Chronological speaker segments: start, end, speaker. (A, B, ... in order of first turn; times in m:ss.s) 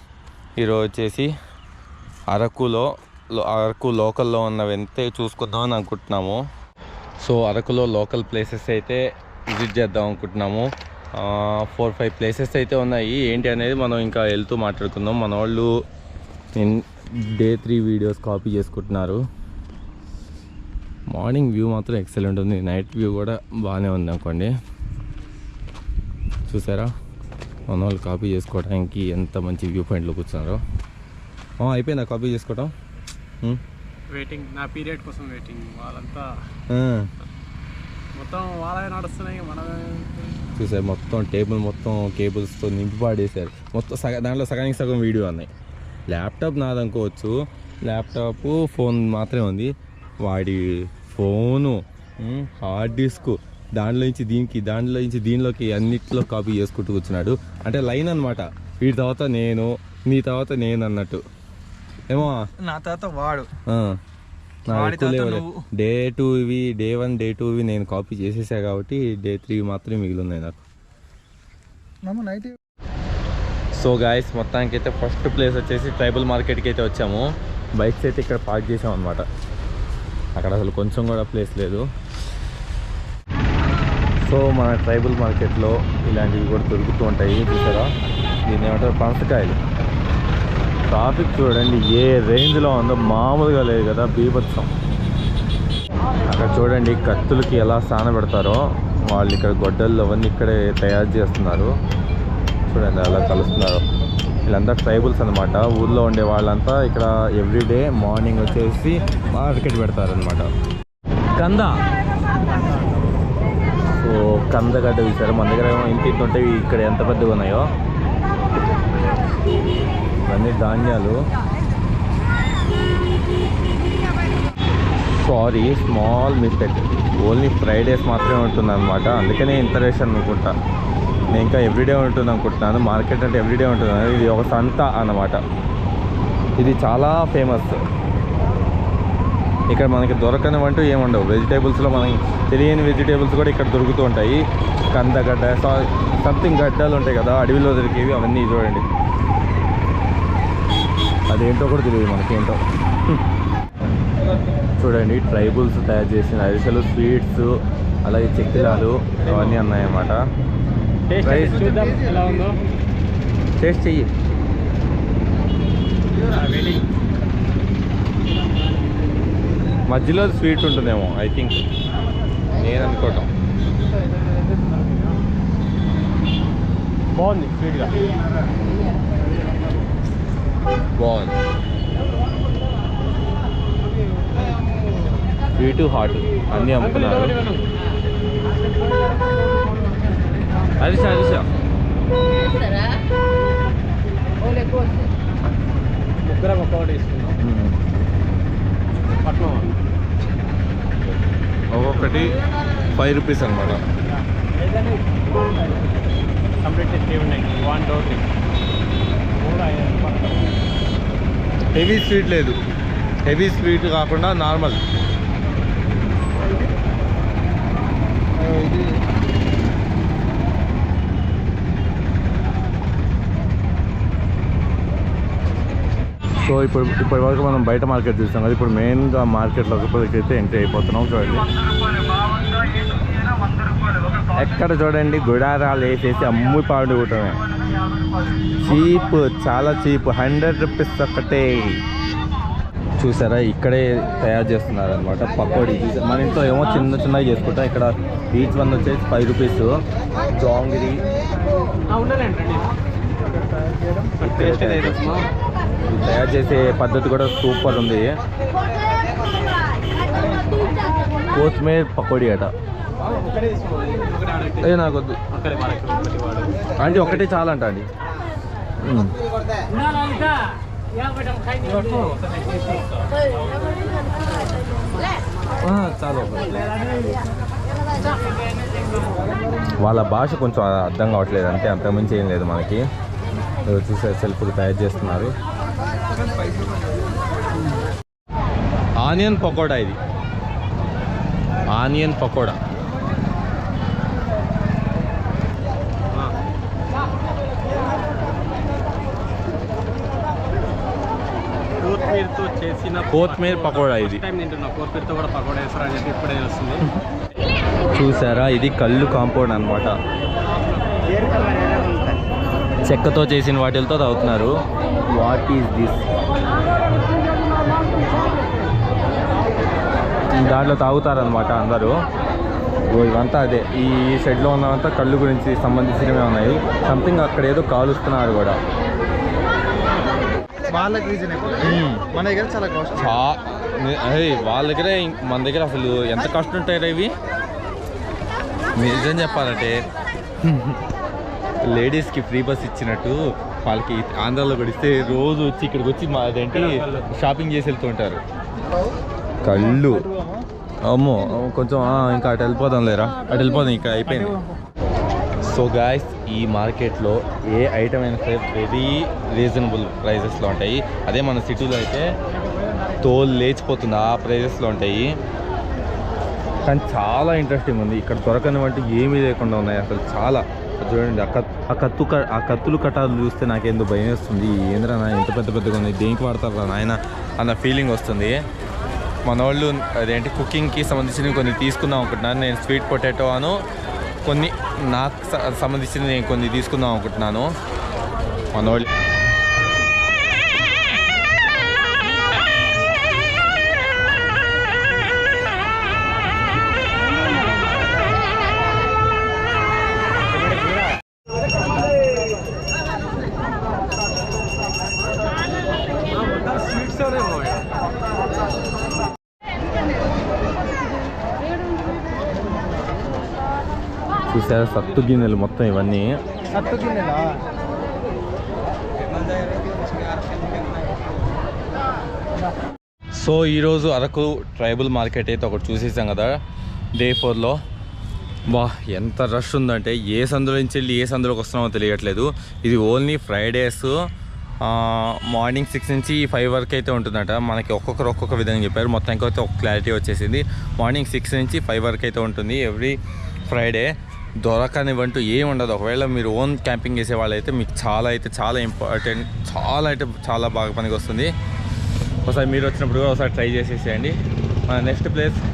0:00.6-0:01.3 A
0:02.3-0:06.4 A
0:07.2-0:15.7 A
0:16.6-0:19.2 A
0:21.1-0:24.5 A
0:26.5-0:26.9 A
0:27.7-0:30.6 A
0:31.6-0:32.7 A
0:34.1-0:36.4 B
0:36.7-0:37.1 A
0:38.2-0:40.4 B
0:40.6-0:45.5 A
0:46.1-1:01.2 A
1:02.1-1:02.5 A
1:02.6-1:03.5 C
1:03.7-1:04.0 A
1:04.7-1:05.6 C
1:04.7-1:10.6 A
1:12.0-1:12.6 C
1:13.8-1:19.2 A
1:20.4-1:21.9 A
1:24.2-1:27.9 A
1:28.5-1:29.6 A
1:30.9-1:34.7 A
1:36.2-1:41.7 A
1:42.7-1:43.8 A
1:44.4-1:50.5 A
1:51.4-1:51.8 A
1:53.9-1:57.7 A
2:00.3-2:01.2 A
2:05.0-2:10.5 A
2:11.3-2:15.4 A
2:16.6-2:17.7 A
2:19.7-2:28.8 A
2:31.3-2:33.2 A
2:34.8-2:40.2 A
2:41.1-2:42.6 B
2:41.2-2:41.6 A
2:41.4-2:42.4 C
2:43.6-2:44.1 A
2:46.4-2:46.8 B
2:49.9-2:51.6 A
2:52.5-2:53.3 A
2:57.1-2:58.1 B
3:01.0-3:01.4 A
3:05.6-3:07.3 A
3:06.6-3:07.7 B
3:10.8-3:11.5 A
3:12.6-3:12.9 B
3:16.2-3:17.4 B
3:17.4-3:17.8 A
3:19.2-3:19.8 B
3:21.7-3:23.8 A
3:24.6-3:25.9 B
3:26.6-3:28.3 B
3:29.4-3:30.6 B
3:31.7-3:32.6 A
3:33.2-3:34.8 A
3:38.4-3:39.0 C
3:46.4-3:51.5 A
3:54.3-3:57.4 A
3:58.6-4:01.8 A
4:03.0-4:11.1 A
4:11.9-4:12.7 B
4:13.5-4:15.3 B
4:14.2-4:15.1 A
4:15.8-4:18.1 A
4:21.3-4:22.5 A
4:23.0-4:24.8 B
4:24.6-4:25.2 A
4:25.3-4:27.2 B
4:26.8-4:27.9 A
4:28.8-4:29.2 A
4:29.9-4:30.3 B
4:31.1-4:33.1 B
4:35.6-4:36.6 A
4:39.8-4:42.8 A
4:43.7-4:45.3 A
4:46.1-4:46.9 C
4:49.0-4:50.0 A
4:51.7-4:52.6 A
5:01.8-5:06.8 B
5:03.1-5:04.2 A
5:07.9-5:09.9 A
5:10.6-5:12.3 B
5:12.8-5:14.5 A
5:15.1-5:16.1 A
5:20.3-5:22.0 A
5:22.9-5:28.6 A
5:30.7-5:33.2 C
5:31.6-5:32.0 A
5:33.0-5:37.1 A
5:38.8-5:39.8 A
5:40.4-5:40.8 A
5:41.6-5:48.2 A
5:49.4-5:50.1 A
5:49.4-5:50.4 C
5:50.9-5:54.4 A
5:54.1-5:54.6 C
5:55.4-6:02.0 A
6:03.0-6:05.1 A
6:06.7-6:18.4 A
6:19.3-6:23.6 A
6:24.2-6:27.5 A
6:28.5-6:28.9 A
6:46.1-6:47.7 B
6:54.3-6:56.1 A
6:56.5-6:57.4 C
6:59.1-7:00.6 C
7:03.2-7:06.4 A
7:07.0-7:07.6 A
7:08.5-7:13.9 A
7:14.6-7:31.3 A
7:32.2-7:34.2 A
7:34.7-7:35.4 A